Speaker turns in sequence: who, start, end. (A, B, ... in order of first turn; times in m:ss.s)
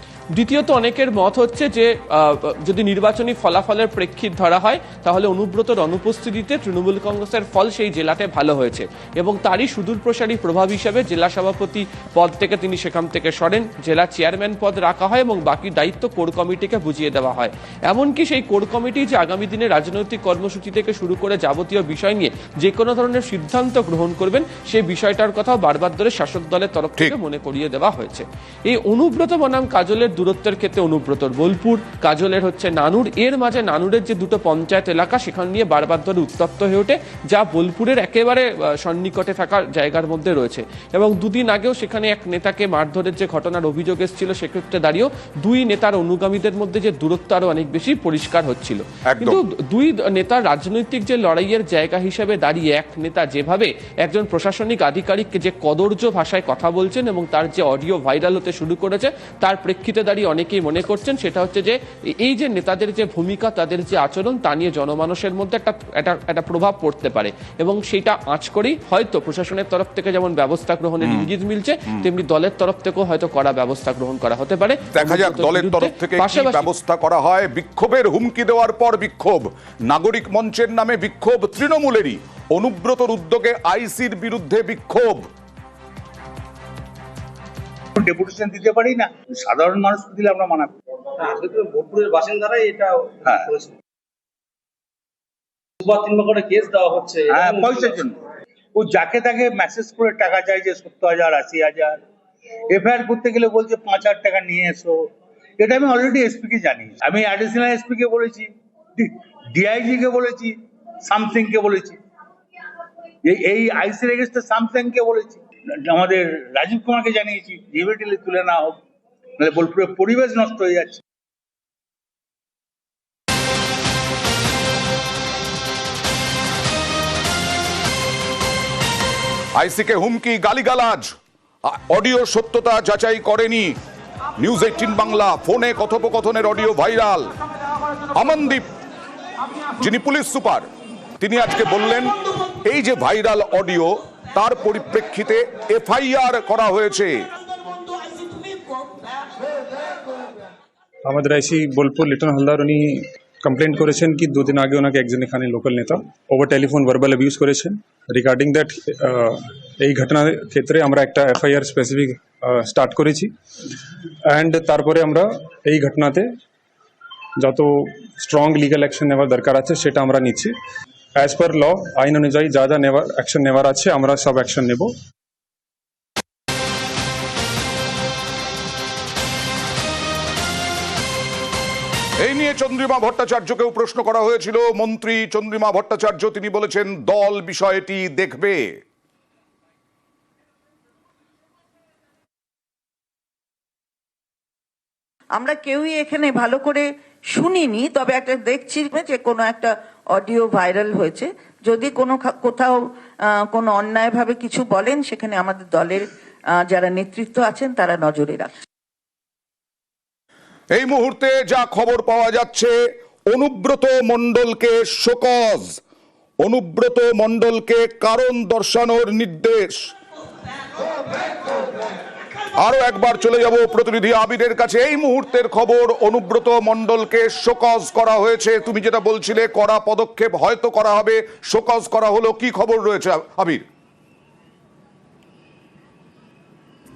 0:00.4-1:16.7 A
0:49.1-0:49.4 B
1:11.0-1:11.3 B
1:14.9-1:25.3 B
1:28.0-1:30.7 C
1:31.2-1:33.7 D
1:35.8-1:38.0 D
1:37.4-1:38.1 C
1:38.8-1:42.0 C
1:42.7-1:45.1 C
1:45.6-1:52.0 C
1:53.3-1:58.8 C
1:59.4-2:01.0 C
2:09.6-2:11.1 B
2:11.7-2:13.8 B
2:14.4-2:17.3 B
2:18.1-2:18.7 B
2:19.8-2:20.6 B
2:21.2-2:27.2 B
2:31.1-2:43.3 E
2:44.3-2:46.3 E
2:47.4-2:50.5 E
2:51.2-2:54.9 E
3:02.2-3:08.6 B
3:15.3-3:26.1 F
3:26.6-3:28.5 F
3:30.7-3:32.8 B
3:33.3-3:35.8 B
3:36.4-3:39.9 B
3:42.6-3:53.6 B